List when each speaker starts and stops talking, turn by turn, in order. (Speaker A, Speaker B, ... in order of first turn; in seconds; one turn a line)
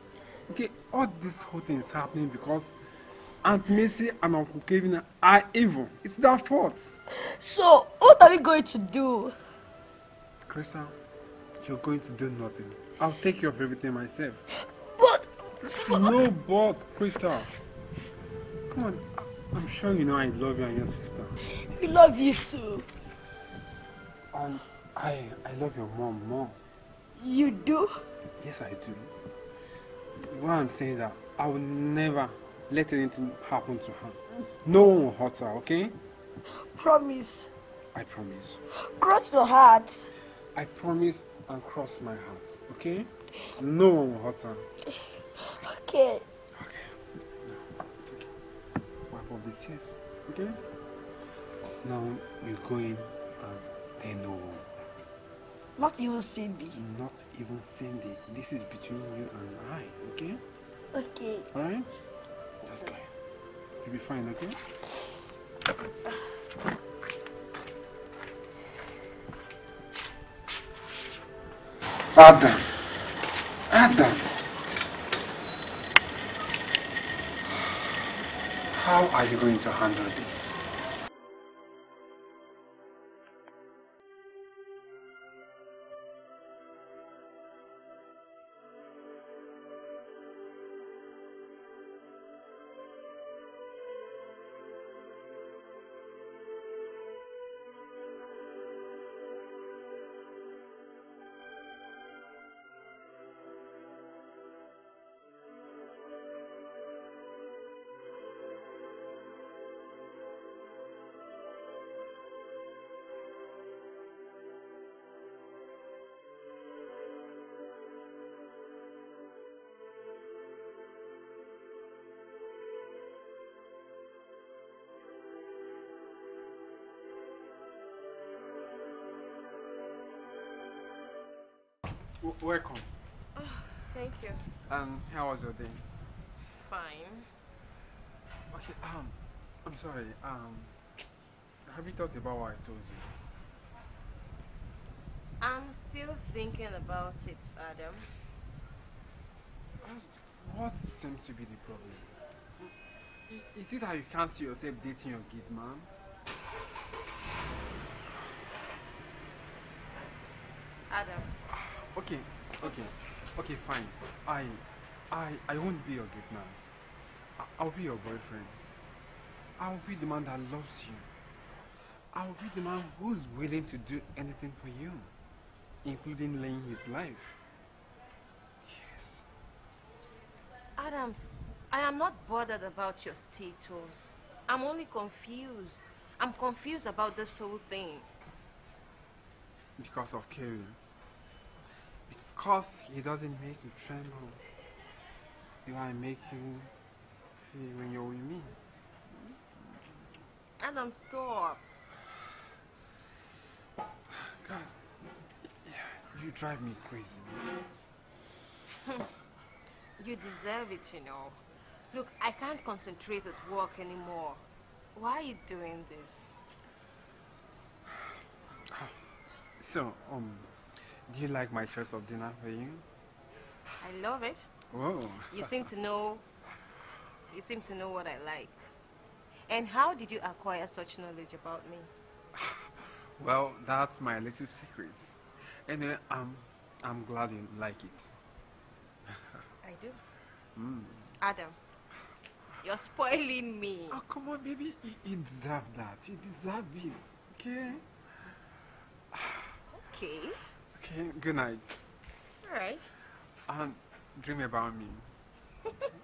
Speaker A: 0.5-2.8
Speaker A: 3.4-6.9
Speaker B: 7.1-9.3
Speaker A: 10.5-10.9
Speaker A: 11.6-14.4
Speaker B: 14.6-16.1
Speaker A: 15.8-17.5
Speaker A: 18.7-21.4
Speaker B: 21.5-22.9
Speaker A: 24.3-26.6
Speaker B: 27.2-28.0
Speaker A: 28.4-29.1
Speaker A: 30.1-36.0
Speaker B: 36.5-37.5
Speaker A: 37.9-38.6
Speaker B: 38.9-40.0
Speaker A: 40.5-44.7
Speaker B: 44.9-46.2
Speaker A: 46.5-48.3
Speaker A: 49.1-50.6
Speaker A: 51.8-54.7
Speaker B: 55.8-56.8
Speaker A: 56.7-60.4
Speaker B: 60.9-61.5
Speaker A: 61.5-61.9
Speaker A: 62.6-63.1
Speaker A: 63.8-64.6
Speaker A: 72.1-72.7
Speaker A: 73.7-74.3
Speaker A: 78.7-80.6
Speaker A: 132.2-132.9
Speaker C: 133.3-134.4
Speaker A: 134.7-135.8
Speaker C: 136.6-137.3
Speaker A: 138.5-140.7
Speaker A: 141.7-143.2
Speaker C: 145.4-148.1
Speaker A: 149.8-152.7
Speaker A: 153.3-155.9
Speaker C: 160.9-161.3
Speaker A: 161.5-166.6
Speaker A: 167.4-168.6
Speaker A: 169.6-171.1
Speaker A: 172.1-175.1
Speaker A: 175.8-177.4
Speaker A: 178.7-179.2
Speaker C: 180.8-188.1
Speaker A: 189.8-190.8
Speaker A: 192.1-194.4
Speaker A: 195.6-196.7
Speaker A: 197.5-198.6
Speaker C: 200.6-201.6
Speaker A: 204.1-204.7
Speaker A: 205.6-207.6
Speaker C: 210.0-211.4
Speaker C: 211.9-214.4
Speaker C: 214.9-216.4
Speaker A: 219.6-220.5
Speaker A: 221.1-222.8
Speaker C: 223.8-224.5
Speaker A: 224.7-225.6
Speaker C: 225.3-226.2
Speaker C: 227.3-228.6
Speaker C: 229.5-231.9
Speaker A: 232.4-235.1
Speaker A: 235.7-238.1
Speaker C: 239.6-240.0
Speaker A: 240.6-241.1
Speaker C: 241.2-241.6
Speaker C: 242.6-244.0
Speaker A: 243.9-247.8
Speaker A: 249.1-249.5
Speaker C: 249.7-250.4
Speaker A: 250.8-251.8
Speaker C: 252.4-252.8
Speaker A: 253.5-255.1